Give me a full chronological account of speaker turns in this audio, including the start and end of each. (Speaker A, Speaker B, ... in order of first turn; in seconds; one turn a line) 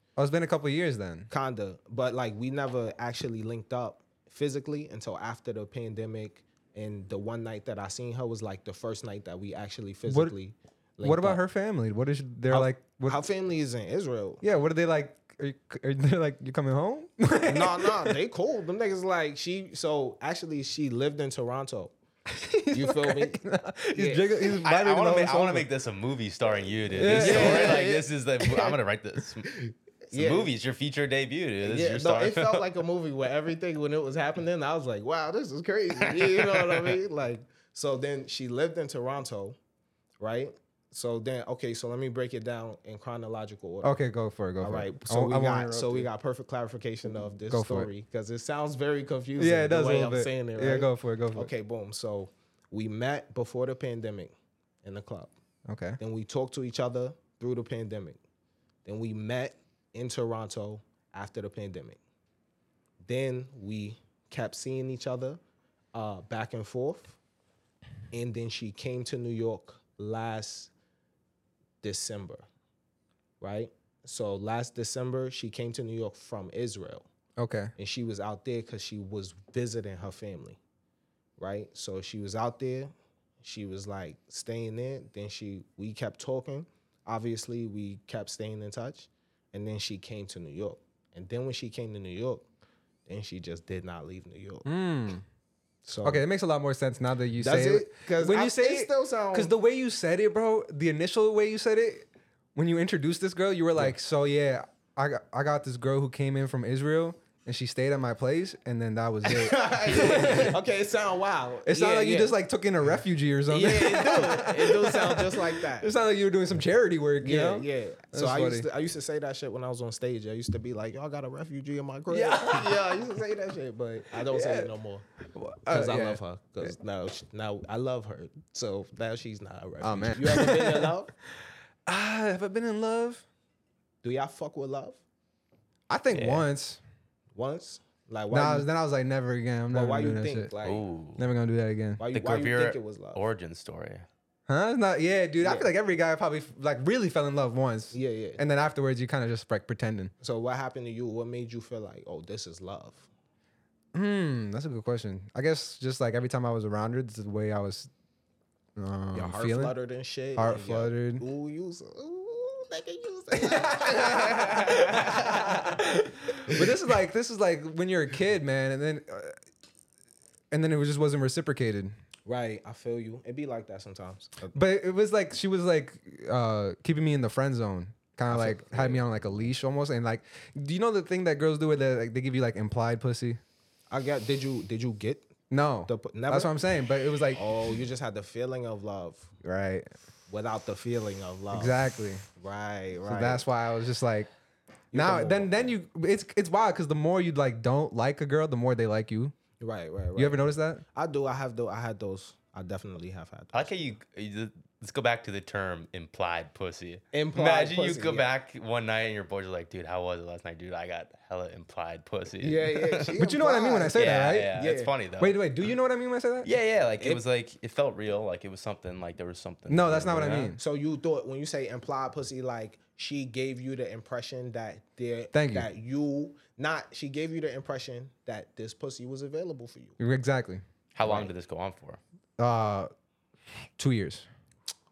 Speaker A: 0.2-1.3
Speaker B: 1.3-11.4
Speaker A: 10.1-10.3
Speaker A: 11.0-13.2
Speaker B: 12.5-14.4
Speaker A: 14.4-18.1
Speaker B: 17.5-21.9
Speaker A: 22.3-25.6
Speaker B: 22.7-23.4
Speaker B: 23.9-24.6
Speaker C: 24.6-29.5
Speaker B: 26.9-28.8
Speaker A: 26.9-27.8
Speaker B: 29.4-30.5
Speaker C: 30.1-32.6
Speaker B: 31.6-39.6
Speaker C: 36.0-37.0
Speaker B: 40.2-44.0
Speaker A: 43.8-46.1
Speaker B: 44.6-55.3
Speaker A: 47.5-47.9
Speaker A: 49.4-51.5
Speaker A: 55.7-56.0
Speaker B: 56.0-58.2
Speaker B: 58.8-62.0
Speaker B: 63.0-65.4
Speaker B: 65.9-67.2
Speaker B: 68.1-70.7
Speaker B: 71.8-72.5
Speaker B: 73.4-77.1
Speaker A: 77.4-77.7
Speaker B: 77.8-80.6
Speaker B: 81.4-92.5
Speaker B: 93.1-94.7
Speaker A: 94.6-95.2
Speaker B: 95.8-96.2
Speaker A: 96.0-110.5
Speaker B: 97.4-99.5
Speaker B: 109.2-115.9
Speaker A: 111.7-118.7
Speaker B: 117.2-125.0
Speaker A: 122.1-123.0
Speaker A: 124.2-124.7
Speaker A: 125.3-126.7
Speaker B: 125.7-131.1
Speaker A: 129.8-130.9
Speaker A: 131.8-133.2
Speaker B: 134.0-135.0
Speaker A: 135.9-136.8
Speaker C: 136.1-136.4
Speaker B: 137.3-138.7
Speaker A: 138.3-140.5
Speaker B: 139.7-140.8
Speaker C: 140.6-141.2
Speaker A: 141.2-142.0
Speaker B: 142.0-143.2
Speaker C: 142.1-144.1
Speaker A: 144.5-150.1
Speaker B: 145.4-145.7
Speaker B: 147.9-148.4
Speaker B: 150.2-153.1
Speaker A: 153.9-157.9
Speaker A: 158.8-159.8
Speaker B: 159.1-165.8
Speaker A: 160.3-161.2
Speaker A: 163.4-169.4
Speaker A: 170.5-171.9
Speaker B: 172.2-174.6
Speaker A: 174.5-183.4
Speaker B: 178.3-179.4
Speaker B: 183.9-185.3
Speaker A: 185.5-187.4
Speaker B: 185.8-186.5
Speaker B: 187.3-189.3
Speaker A: 189.4-189.9
Speaker B: 190.3-191.8
Speaker A: 191.5-192.2
Speaker B: 192.4-193.4
Speaker A: 193.1-194.3
Speaker B: 194.9-195.7
Speaker A: 194.9-199.3
Speaker B: 199.6-203.9
Speaker A: 200.1-200.8
Speaker C: 203.5-213.1
Speaker B: 207.1-208.3
Speaker B: 212.4-214.9
Speaker A: 213.2-214.6
Speaker C: 213.9-215.4
Speaker A: 215.2-216.5
Speaker C: 216.4-220.5
Speaker A: 219.7-220.6
Speaker B: 220.6-230.0
Speaker A: 225.3-225.7
Speaker A: 230.0-230.6
Speaker C: 230.9-232.0
Speaker B: 231.0-231.3
Speaker A: 232.4-232.9
Speaker A: 233.8-234.3